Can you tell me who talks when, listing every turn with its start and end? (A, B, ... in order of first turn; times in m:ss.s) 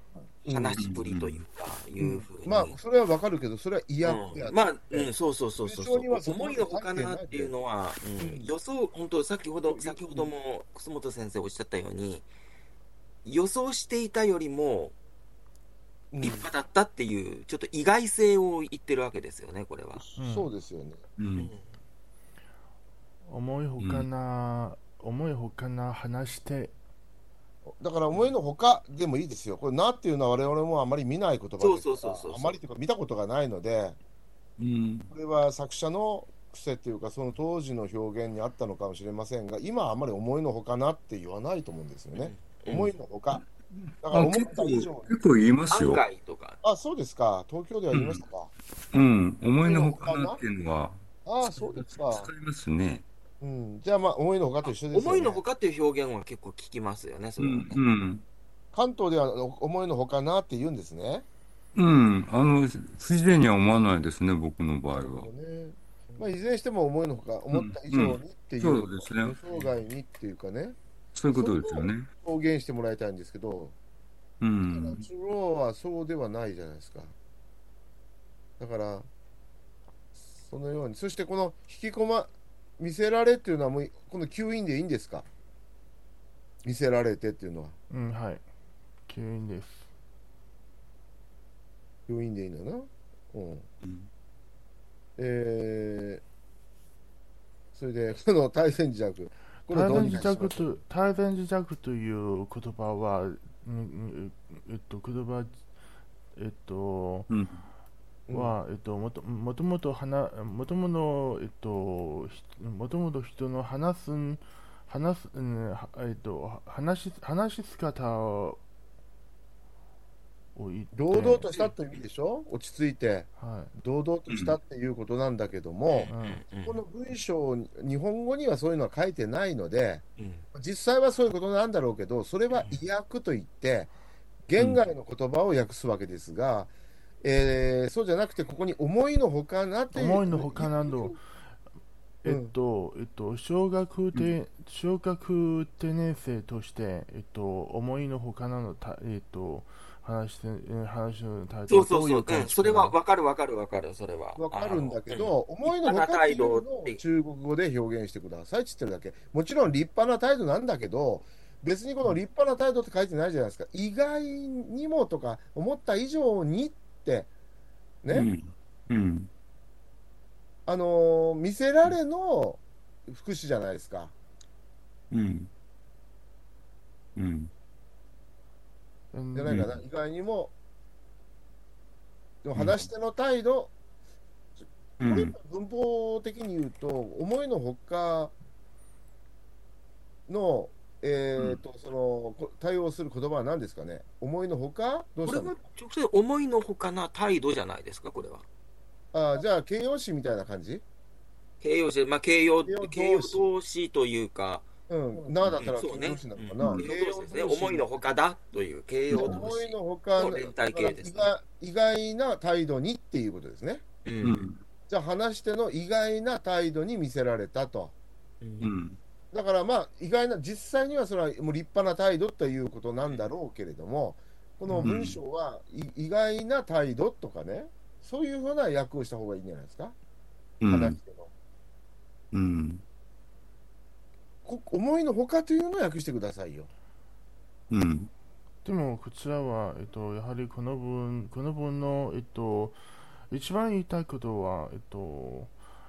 0:00.4-0:00.8 A
0:00.5-0:02.7 B
0:00.8-0:01.3 C
0:02.0-0:05.1 A
0:04.0-0:12.3 B
0:05.6-0:07.5 A
0:08.2-0:08.5 A
0:09.7-0:10.3 A
0:13.2-0:14.9 B
0:16.1-0:16.5 A
0:16.2-0:20.0 B
0:20.0-0:21.0 A
0:20.2-0:20.5 D
0:21.2-0:21.5 C
0:21.3-0:21.6 B
0:23.2-0:26.7 D
0:23.8-0:24.1 C
0:27.7-0:34.0 A
0:31.6-0:32.6 B
0:34.6-0:35.1 C
0:35.1-0:43.4 A
0:42.1-0:42.9 B
0:44.0-0:45.1 A
0:44.1-0:46.0 C
0:45.7-0:46.6 B
0:46.6-0:48.5 A
0:47.9-0:48.2 C
0:48.9-0:51.0 C
0:49.6-0:50.4 A
0:51.2-0:52.3 A
0:51.5-0:53.0 C
0:53.4-0:55.4 A
0:54.9-0:57.8 B
0:57.4-0:58.2 C
0:58.7-1:01.3 A
1:01.7-1:05.3 C
1:04.9-1:10.8 A
1:07.5-1:09.4 C
1:11.1-1:12.1 C
1:11.3-1:13.8 A
1:14.4-1:15.0 C
1:14.7-1:17.1 A
1:18.6-1:19.1 A
1:20.2-1:25.3 A
1:26.6-1:27.8 A
1:27.9-1:28.4 D
1:29.1-1:29.9 D
1:32.1-1:33.7 A
1:33.8-1:34.1 C
1:35.2-1:36.2 A
1:37.7-1:40.8 A
1:39.7-1:45.6 D
1:39.9-1:40.2 C
1:46.4-1:47.3 D
1:47.3-1:47.6 C
1:48.3-1:48.5 A
1:48.3-1:58.6 D
2:00.5-2:01.5 D
2:00.9-2:13.9 A
2:03.4-2:03.7 D
2:04.3-2:04.6 C
2:05.9-2:06.8 B
2:06.1-2:06.4 D
2:10.2-2:10.4 B
2:12.5-2:12.8 B
2:14.5-2:16.7 A
2:17.2-2:21.1 A
2:19.9-2:21.2 D
2:22.2-2:33.0 D
2:22.2-2:22.5 A
2:31.7-2:37.0 B
2:34.4-2:47.3 A
2:48.0-2:48.3 A
2:48.1-2:49.3 C
2:50.7-2:54.1 A
2:55.1-2:55.5 C
2:57.2-2:57.5 C
2:59.1-2:59.6 D
2:59.3-3:00.5 A
2:59.5-2:59.7 C
3:02.4-3:03.7 A
3:02.6-3:02.8 C
3:05.0-3:05.3 C
3:05.0-3:08.3 A
3:10.3-3:15.6 A
3:15.2-3:18.4 B
3:19.1-3:20.8 A
3:21.6-3:24.7 B
3:22.6-3:23.5 A
3:24.9-3:27.9 A
3:25.4-3:31.3 B
3:26.6-3:26.8 C
3:29.1-3:29.5 C
3:29.1-3:33.8 A
3:34.0-3:34.4 B
3:34.2-3:34.6 C
3:34.9-3:37.9 A
3:38.4-3:38.7 B
3:38.6-3:39.0 C
3:39.3-3:50.0 A
3:44.7-3:45.2 C
3:50.6-3:51.0 C
3:50.6-3:51.3 A
3:52.3-3:52.8 C
3:54.4-3:56.7 A
3:57.7-3:58.1 C
3:58.6-4:02.8 D
4:03.3-4:05.5 D